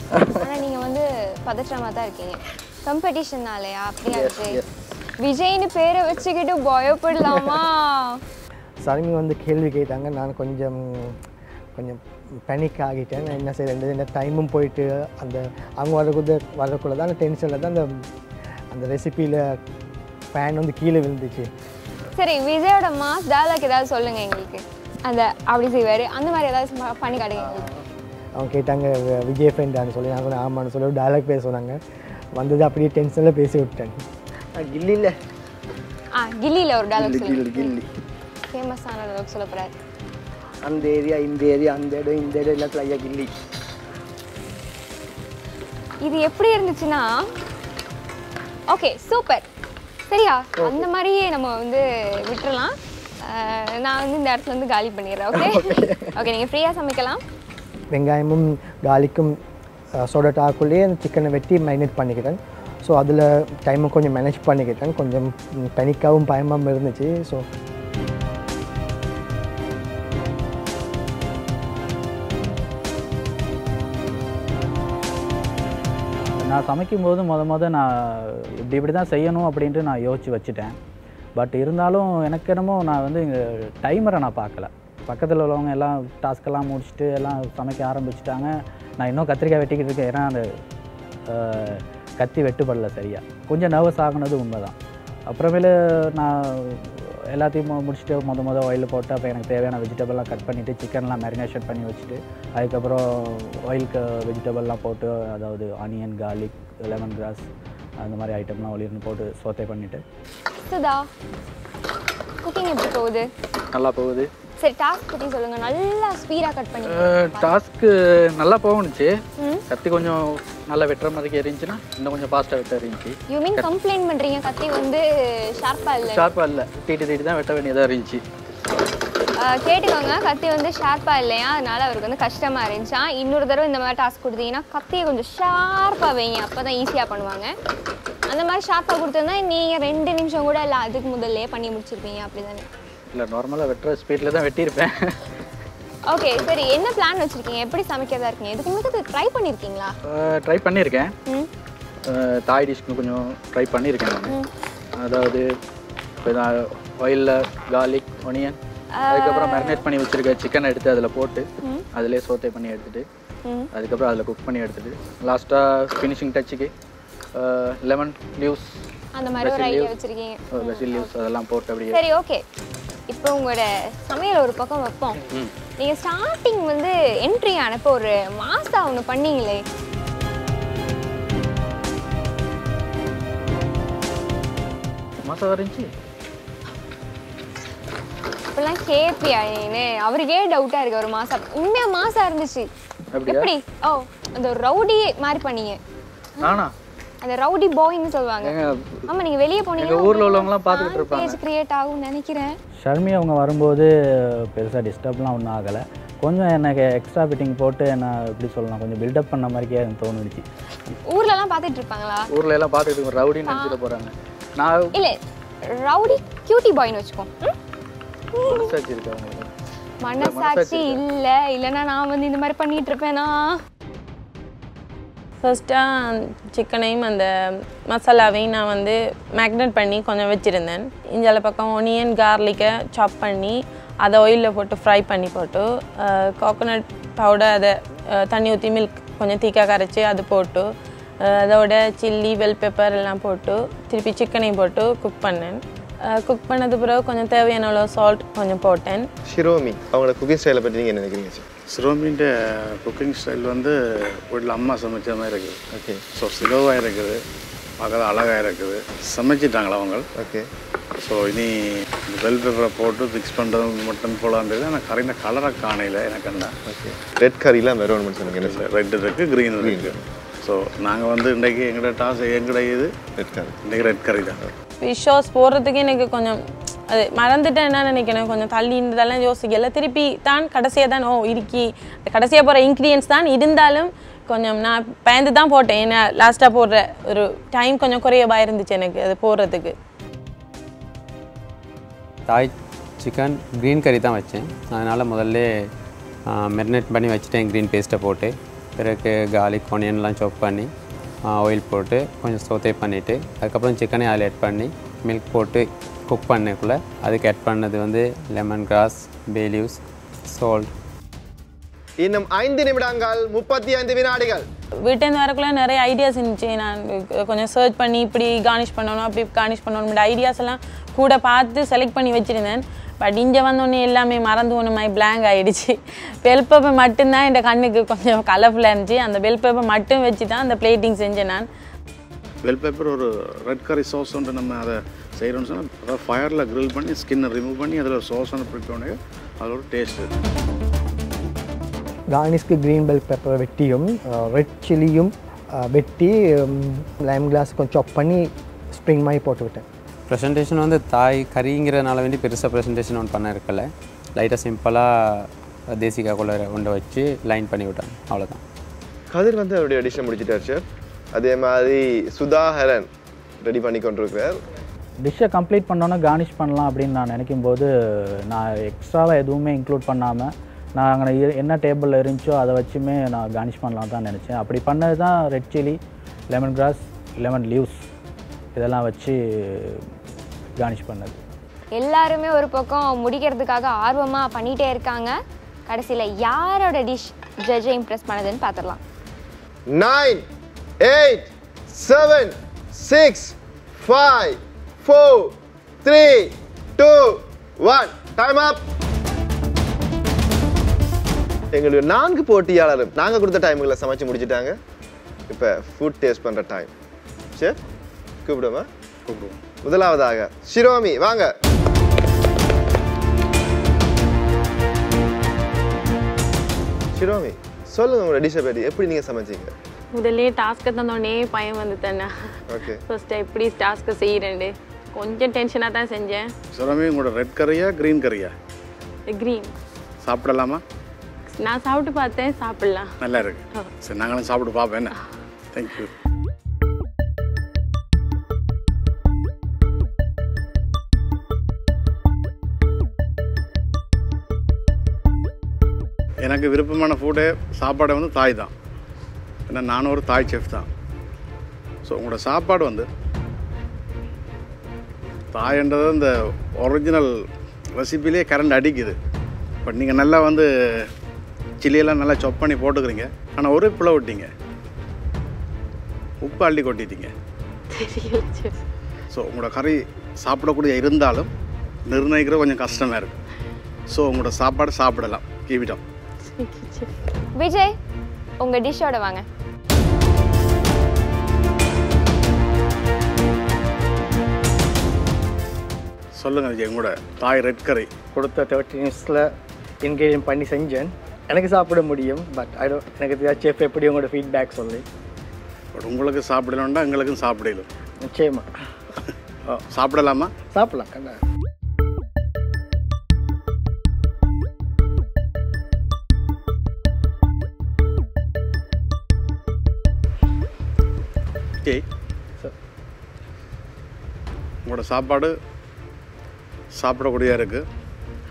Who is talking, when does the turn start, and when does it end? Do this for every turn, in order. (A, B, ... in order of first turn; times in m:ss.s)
0:00.1-0:00.5 A
0:00.4-0:04.6 B
0:04.0-0:04.7 A
0:05.2-0:08.2 B
0:08.8-0:11.2 A
0:11.7-0:18.0 A
0:18.7-0:19.6 A
0:20.3-0:21.5 A
0:22.2-0:27.7 B
0:27.4-0:27.8 A
0:28.4-0:31.8 A
0:32.4-0:34.0 A
0:34.6-0:35.2 A
0:36.2-0:37.7 B
0:37.0-0:37.9 A
0:38.5-0:39.7 B
0:40.6-0:43.3 A
0:46.0-0:47.3 B
0:48.7-0:49.4 B
0:50.1-0:57.2 B
0:50.6-0:50.9 A
0:55.3-0:56.1 A
0:57.9-0:59.4 A
1:00.0-1:07.4 A
1:16.4-1:20.8 C
1:21.4-1:30.5 C
1:31.3-1:34.7 C
1:35.3-1:47.4 C
1:48.0-1:50.0 C
1:50.7-1:51.1 B
1:52.4-1:53.3 B
1:53.7-1:54.3 D
1:54.6-1:57.5 B
1:56.9-1:59.1 D
1:59.4-1:59.6 B
1:59.7-2:03.7 D
2:03.3-2:06.3 B
2:06.1-2:08.2 D
2:09.4-2:17.5 B
2:18.3-2:22.7 B
2:23.1-2:25.2 D
2:26.1-2:30.0 B
2:30.1-2:31.1 D
2:32.1-2:34.4 D
2:35.0-2:35.4 D
2:36.2-2:38.6 D
2:38.9-2:39.8 B
2:39.1-2:43.0 D
2:41.6-2:41.8 B
2:43.4-2:43.7 B
2:43.7-2:46.7 D
2:47.4-2:48.6 D
2:49.1-2:51.1 B
2:49.4-2:49.9 D
2:50.5-2:52.0 D
2:51.9-2:52.4 B
2:53.1-2:55.2 B
2:55.8-2:59.6 B
3:05.2-3:05.9 D
3:08.5-3:12.7 B
3:13.1-3:13.5 D
3:13.2-3:15.8 B
3:16.4-3:16.7 D
3:17.2-3:18.5 B
3:18.4-3:19.1 D
3:19.1-3:22.6 B
3:19.8-3:21.4 D
3:22.8-3:23.9 C
3:24.5-3:30.4 C
3:31.0-3:32.3 B
3:32.3-3:34.9 D
3:33.4-3:33.8 B
3:34.9-3:37.6 B
3:38.3-3:38.7 B
3:38.4-3:39.5 D
3:40.0-3:43.6 B
3:40.2-3:41.0 D
3:45.4-4:00.7 E
4:01.2-4:09.1 E
4:09.3-4:11.4 F
4:11.7-4:15.6 G
4:15.7-4:16.0 F
4:16.1-4:17.2 G
4:17.8-4:20.0 G
4:20.2-4:20.5 F
4:21.0-4:26.5 G
4:26.6-4:28.6 F
4:28.3-4:32.9 G
4:29.6-4:30.0 F
4:33.2-4:33.6 F
4:33.6-4:34.4 G
4:34.8-4:49.7 E
4:52.3-4:55.5 H
4:56.3-5:00.7 H
5:01.3-5:10.7 H
5:12.0-5:14.4 F
5:14.8-5:31.5 E
5:32.4-5:40.1 G
5:42.1-5:49.6 A
5:50.1-5:58.4 H
5:59.1-6:00.6 F
6:01.1-6:02.9 F
6:03.4-6:04.4 F
6:05.0-6:07.7 C
6:08.2-6:15.8 C
6:16.3-6:17.8 C
6:18.5-6:19.8 C
6:20.6-6:21.2 C
6:21.7-6:28.8 B
6:29.7-6:30.2 F
6:30.8-6:38.6 F
6:41.5-6:44.6 F
6:45.3-6:46.7 F
6:48.2-6:48.7 F
6:49.0-6:49.4 G
6:49.6-6:51.3 F
6:56.9-6:59.5 F
6:59.9-7:02.3 E
7:02.5-7:02.8 F
7:02.9-7:06.3 E
7:06.5-7:08.3 G
7:09.1-7:09.5 E
7:10.0-7:10.6 G
7:11.3-7:12.9 E
7:13.0-7:14.9 G
7:15.5-7:15.9 G
7:26.2-7:28.5 G
7:29.5-7:30.7 G
7:31.8-7:32.9 G
7:35.3-7:37.1 G
7:37.8-7:39.0 G
7:39.6-7:40.9 G
7:41.6-7:44.3 G
7:46.2-7:47.1 G
7:47.7-7:48.6 E
7:49.1-7:51.3 G
7:51.9-7:53.2 G
7:53.9-7:55.8 G
7:56.3-7:56.9 E
7:57.4-7:57.7 B
7:58.4-7:59.2 B
8:06.2-8:07.9 G
8:08.1-8:09.3 A
8:09.8-8:14.8 A
8:15.7-8:17.7 G
8:18.0-8:18.5 A
8:19.5-8:20.3 G
8:20.5-8:21.2 A
8:34.6-8:35.3 G
8:36.8-8:37.6 G